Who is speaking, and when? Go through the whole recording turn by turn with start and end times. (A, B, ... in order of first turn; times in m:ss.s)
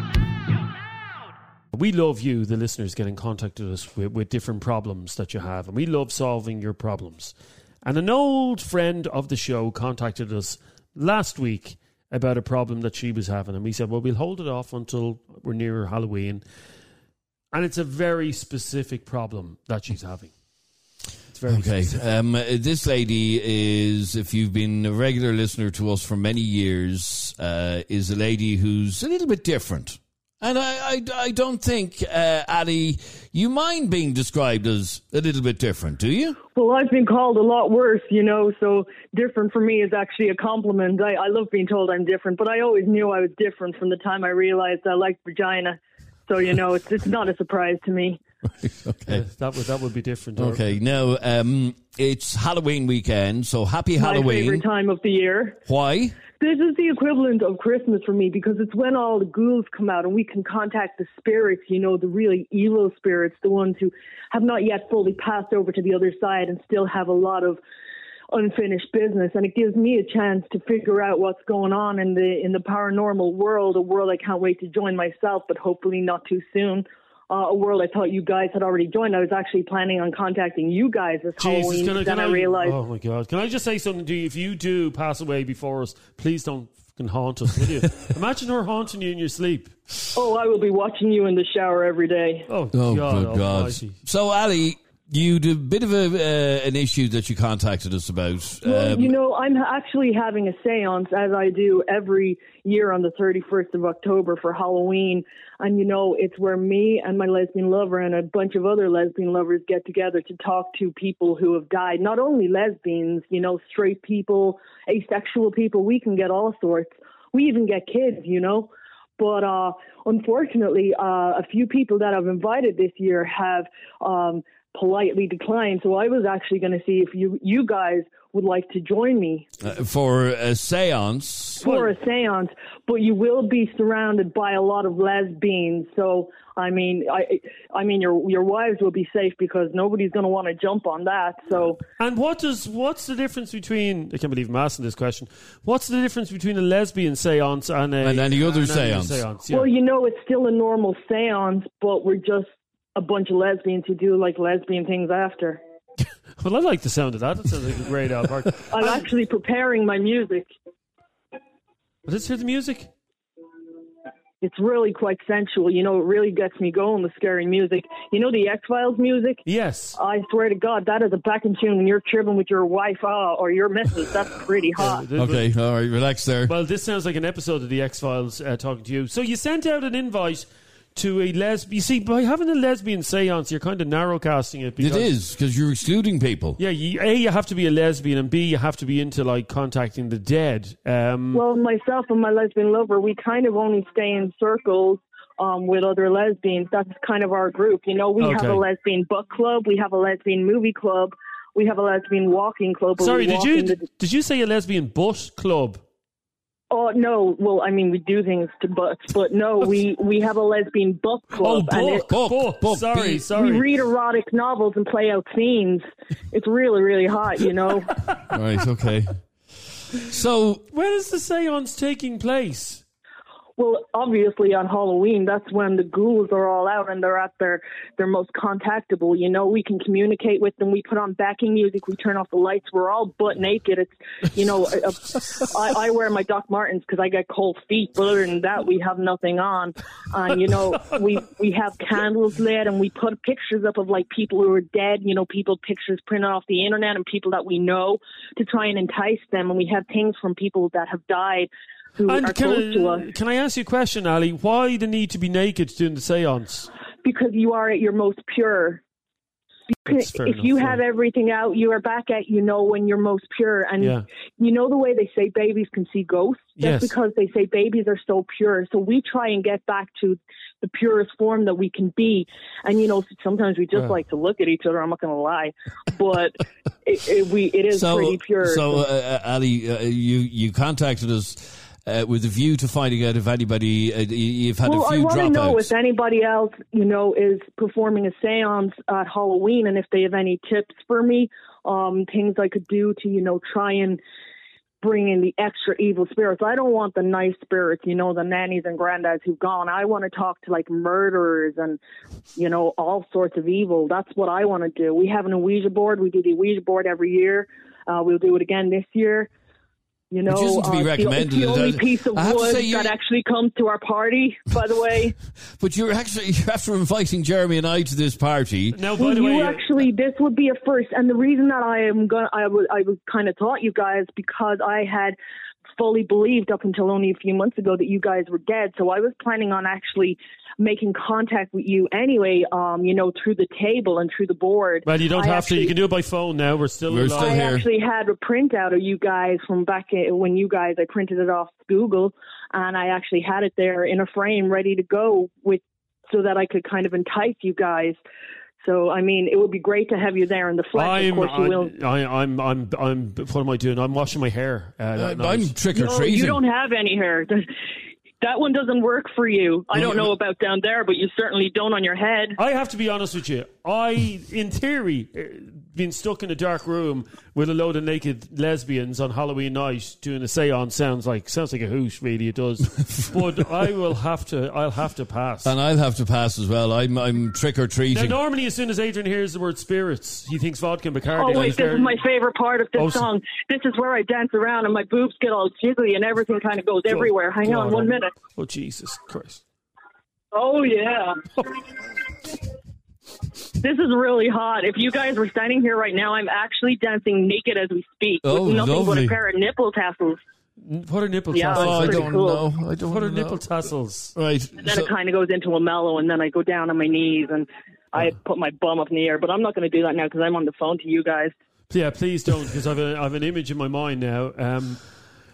0:01.7-0:16.4 A
0:17.5-0:20.3 A
0:21.3-0:22.0 A
0:21.5-0:36.4 B
0:36.5-0:48.2 C
0:48.6-0:49.2 B
0:49.1-0:50.7 A
0:50.4-0:54.6 B
0:54.0-0:55.6 C
0:55.6-0:56.2 B
0:56.4-1:07.6 C
1:08.3-1:22.8 C
1:21.4-1:29.8 A
1:30.1-1:32.5 C
1:32.5-1:33.9 A
1:32.7-1:39.1 B
1:38.6-2:09.5 C
2:09.6-2:11.6 B
2:11.6-2:21.8 C
2:11.6-2:11.9 A
2:22.0-2:29.7 A
2:28.0-2:29.2 B
2:29.5-2:35.6 C
2:36.4-2:39.0 A
2:38.7-2:40.5 C
2:42.0-2:42.9 A
2:44.4-2:49.4 C
2:49.4-2:50.0 A
2:49.9-2:55.0 C
2:54.8-2:55.5 A
2:55.2-2:56.5 B
2:56.4-3:05.1 A
3:04.8-3:06.6 B
3:06.6-3:11.4 A
3:11.3-3:23.8 C
3:18.2-3:18.6 A
3:23.0-3:25.8 A
3:26.7-3:32.1 C
3:31.4-3:33.7 A
3:32.1-3:33.2 B
3:33.3-3:37.9 C
3:38.3-3:39.2 B
3:39.9-3:40.6 B
3:40.7-3:42.8 A
3:43.6-4:13.1 C
4:12.1-4:16.7 A
4:17.0-4:18.8 C
4:19.7-4:38.8 C
4:19.9-4:20.8 A
4:23.8-4:24.0 A
4:26.6-4:26.9 A
4:37.7-4:45.7 B
4:44.6-4:54.0 C
4:54.8-5:01.8 C
5:02.4-5:09.3 C
5:10.1-5:15.2 C
5:10.2-5:13.0 B
5:15.6-5:18.8 B
5:18.7-5:19.7 A
5:19.0-5:25.2 C
5:25.8-5:35.8 C
5:34.8-5:37.4 A
5:36.9-5:37.6 B
5:37.2-5:48.0 C
5:48.6-5:51.7 C
5:50.7-5:55.5 A
5:55.0-5:56.4 B
5:55.7-5:57.4 C
5:58.2-6:02.4 C
6:02.4-6:15.5 A
6:15.4-6:18.2 B
6:17.9-6:22.0 A
6:21.2-6:28.1 C
6:22.7-6:23.1 A
6:26.9-6:29.4 A
6:30.3-6:31.2 C
6:33.6-6:40.2 C
6:38.2-6:39.2 B
6:40.6-6:42.2 A
6:41.3-6:42.5 C
6:41.5-6:43.4 B
6:42.9-6:44.1 A
6:44.1-6:44.9 B
6:44.6-6:51.3 C
6:51.7-6:54.8 A